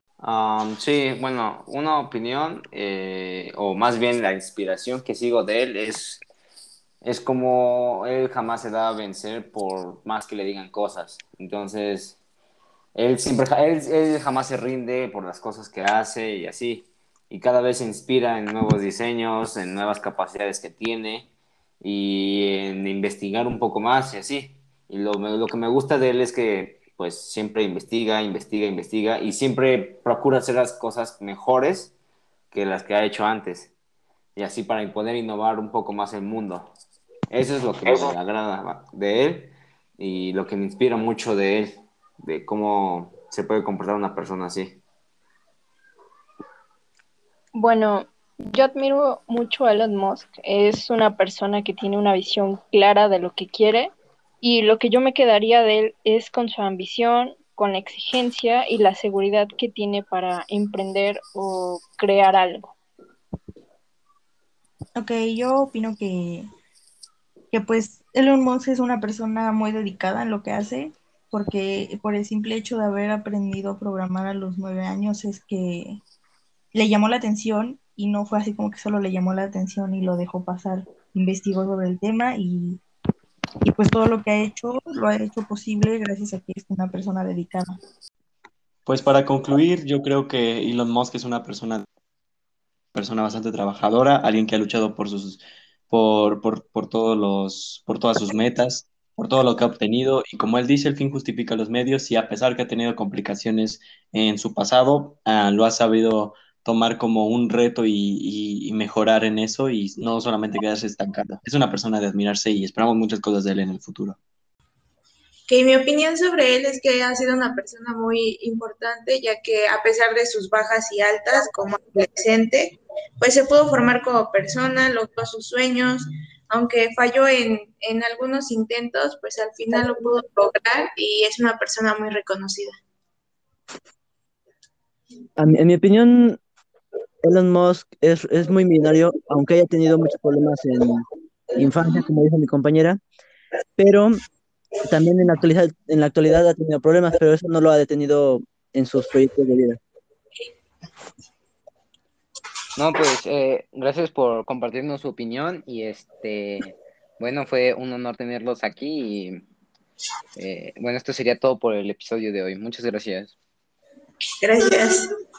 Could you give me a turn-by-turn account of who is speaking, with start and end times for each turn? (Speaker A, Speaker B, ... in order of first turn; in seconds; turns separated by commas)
Speaker A: 0.2-6.2, Speaker A: 7.0-12.2, Speaker A: 12.9-21.3, Speaker A: 21.8-31.9, Speaker A: 32.5-33.7, Speaker A: 34.4-36.7, Speaker A: 37.3-44.8, Speaker B: 47.5-62.7, Speaker C: 65.0-66.5, Speaker C: 67.5-76.0, Speaker C: 76.7-82.8, Speaker C: 83.6-87.8, Speaker D: 88.9-91.8, Speaker D: 92.9-114.2, Speaker E: 115.5-132.8, Speaker F: 135.4-136.4, Speaker F: 137.2-141.1, Speaker F: 141.6-143.0, Speaker F: 143.8-144.2, Speaker F: 144.9-149.8, Speaker G: 152.8-159.4, Speaker G: 160.4-163.3, Speaker E: 164.4-165.1